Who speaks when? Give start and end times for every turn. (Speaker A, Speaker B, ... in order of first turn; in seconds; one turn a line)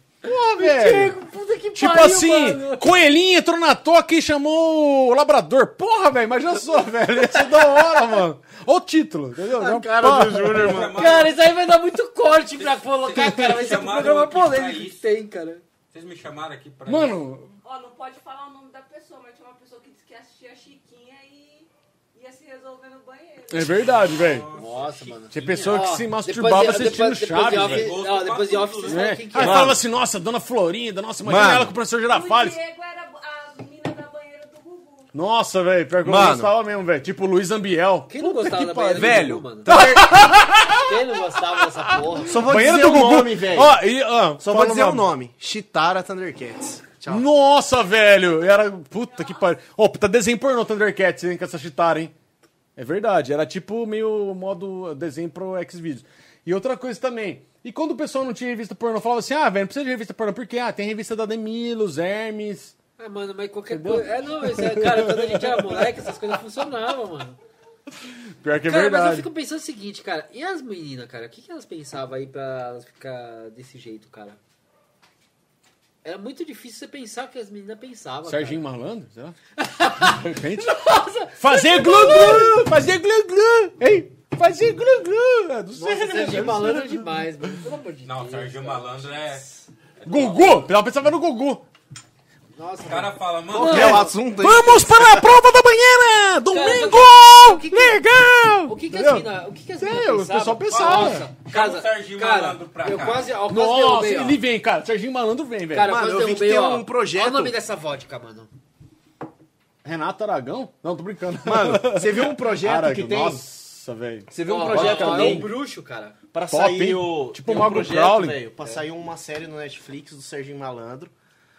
Speaker A: 0.2-1.2
Speaker B: 0.5-2.9
Speaker A: 1.7-10.9
Speaker C: 9.4-11.1
Speaker D: 10.5-11.4
Speaker B: 10.9-15.6
Speaker D: 12.6-15.0
Speaker D: 15.9-17.2
Speaker A: 16.9-17.5
Speaker E: 17.6-24.2
Speaker A: 23.5-24.5
Speaker D: 23.8-25.8
Speaker B: 24.5-29.8
Speaker A: 25.3-27.9
Speaker D: 27.5-29.2
Speaker A: 28.8-32.6
Speaker C: 29.4-29.8
Speaker C: 31.2-31.7
Speaker E: 32.1-35.1
Speaker A: 35.1-45.1
Speaker C: 36.0-36.5
Speaker B: 38.1-39.7
Speaker C: 39.0-40.2
Speaker B: 40.8-42.4
Speaker C: 42.2-43.8
Speaker C: 44.4-47.2
Speaker A: 47.1-52.1
Speaker A: 52.8-62.7
Speaker B: 63.0-67.4
Speaker A: 63.7-66.3
Speaker A: 68.3-69.3
Speaker B: 68.7-74.4
Speaker B: 76.0-78.6
Speaker A: 78.2-79.4
Speaker B: 79.6-82.7
Speaker A: 79.9-87.6
Speaker B: 85.7-89.6
Speaker D: 88.0-89.4
Speaker D: 90.0-90.6
Speaker A: 90.0-91.6
Speaker B: 92.5-94.1
Speaker D: 92.8-94.1
Speaker C: 93.5-95.3
Speaker A: 93.5-101.3
Speaker B: 96.5-98.0
Speaker B: 98.6-104.4
Speaker D: 100.7-103.3
Speaker A: 103.5-106.0
Speaker B: 105.7-108.5
Speaker C: 105.8-107.5
Speaker A: 109.8-115.5
Speaker C: 111.4-113.4
Speaker C: 114.3-115.5
Speaker B: 114.4-116.1
Speaker C: 116.3-121.1
Speaker A: 116.5-118.4